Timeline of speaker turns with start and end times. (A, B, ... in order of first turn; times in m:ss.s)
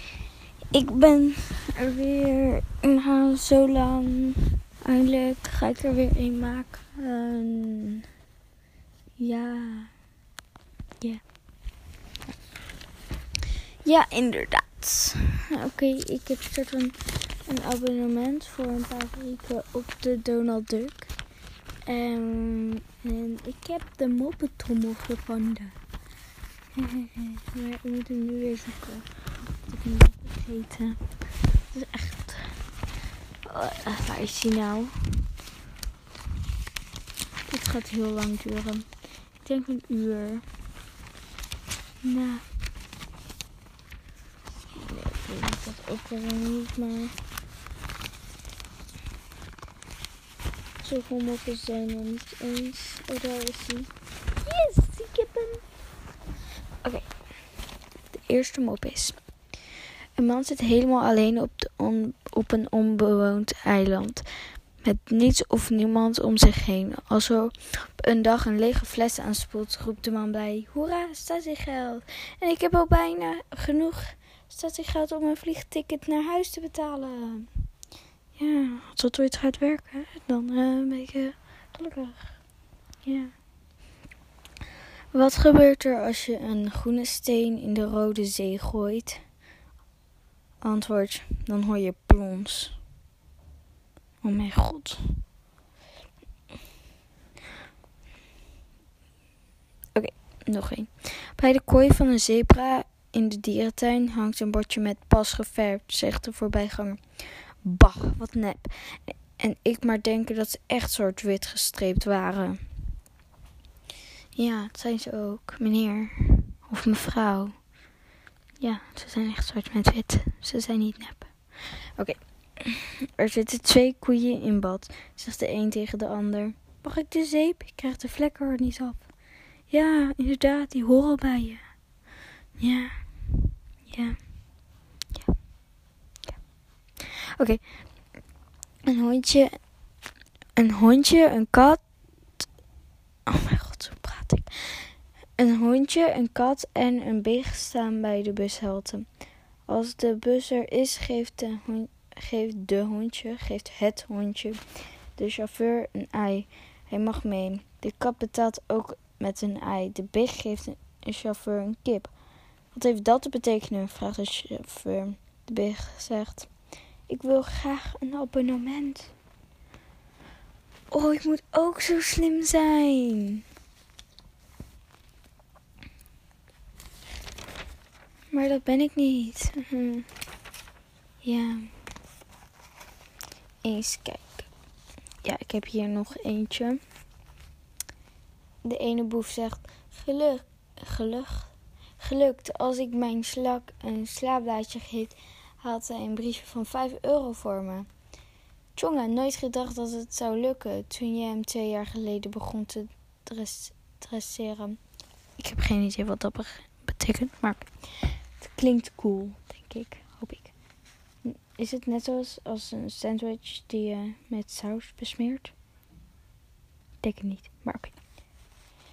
0:00.7-0:08.0 A
0:09.2-0:09.9 A
0:13.8-0:21.1 A
0:21.8-0:25.8 A
0:26.8-0:31.1 A
0:31.7-0:32.6 A
0:33.4-0:35.3 A
0:37.5-0:40.5 A
0:42.0-0:42.5 A
0:44.7-0:47.2 A
0:50.8-0:53.9 A
0:54.4-0:55.6 A
0:56.8-0:57.1 A
0:58.1-0:59.2 A
1:00.2-1:17.6 A
1:18.4-1:22.4 A
1:23.0-1:23.3 A
1:25.1-1:29.2 A
1:30.6-1:32.8 A
1:34.2-1:35.2 A
1:39.9-1:52.6 A
1:54.3-1:57.6 A
1:58.6-2:09.1 A
2:09.7-2:11.7 A
2:12.6-2:14.2 A
2:17.4-2:17.7 A
2:18.9-2:19.6 A
2:20.6-2:21.8 A
2:23.3-2:29.1 A
2:29.7-2:42.1 A
2:42.7-2:46.5 A
2:47.1-2:49.1 A
2:50.9-2:53.4 A
2:58.3-3:00.1 A
3:01.2-3:01.7 A
3:03.6-3:04.5 A
3:05.2-3:06.8 A
3:08.6-3:17.9 A
3:18.7-3:24.8 A
3:25.4-3:30.5 A
3:31.2-3:35.5 A
3:37.0-3:38.0 A